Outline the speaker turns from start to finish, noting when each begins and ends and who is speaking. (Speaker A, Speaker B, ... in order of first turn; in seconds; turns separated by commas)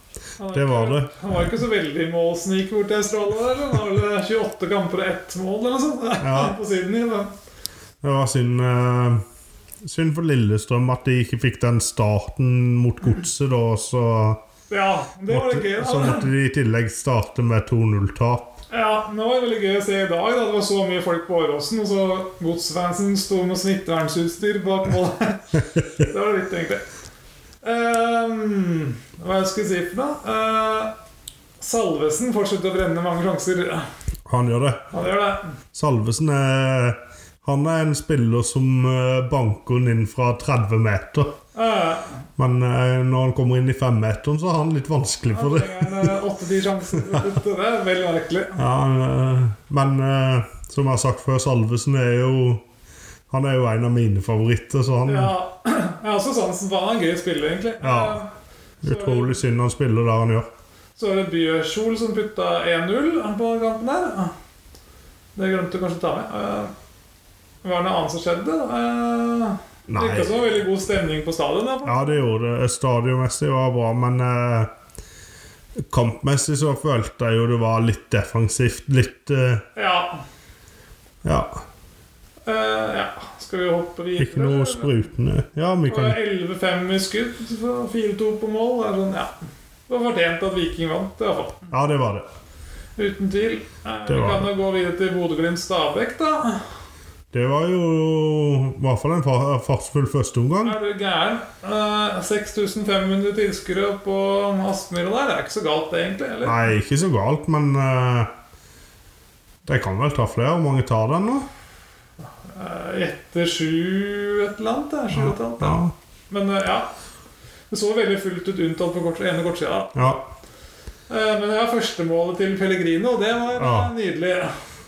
Speaker A: 0.4-7.3, Speaker B: 0.5-1.1, Speaker B: 6.2-6.6, Speaker B: 8.0-9.2, Speaker B: 9.8-14.4, Speaker A: 14.7-16.3, Speaker B: 15.3-18.6, Speaker A: 18.7-26.8, Speaker A: 27.6-30.9, Speaker A: 31.6-33.9, Speaker B: 34.3-34.9, Speaker A: 34.9-35.5, Speaker B: 35.7-41.4, Speaker A: 41.5-42.2, Speaker B: 42.4-46.1, Speaker A: 45.3-48.6, Speaker B: 47.0-47.2, Speaker B: 48.6-52.6, Speaker B: 53.3-55.3, Speaker A: 55.1-58.3, Speaker B: 57.8-58.2, Speaker A: 58.8-59.4, Speaker B: 58.8-60.5, Speaker A: 61.0-64.3, Speaker A: 65.4-66.7, Speaker A: 67.6-72.2, Speaker B: 69.9-70.3, Speaker B: 71.8-74.7, Speaker B: 75.8-79.7, Speaker A: 79.8-80.2, Speaker B: 81.2-81.6, Speaker A: 82.5-85.0, Speaker B: 84.2-86.2, Speaker A: 85.9-89.3, Speaker A: 89.9-91.7, Speaker B: 91.7-92.3, Speaker A: 93.0-96.6, Speaker B: 94.1-94.5, Speaker B: 97.3-100.8, Speaker A: 100.6-106.7, Speaker B: 106.4-108.3, Speaker B: 109.7-111.5, Speaker A: 112.5-115.8, Speaker B: 115.1-115.9, Speaker A: 116.3-116.9, Speaker A: 117.7-120.1, Speaker B: 120.0-120.3, Speaker A: 121.1-124.5, Speaker B: 123.6-123.9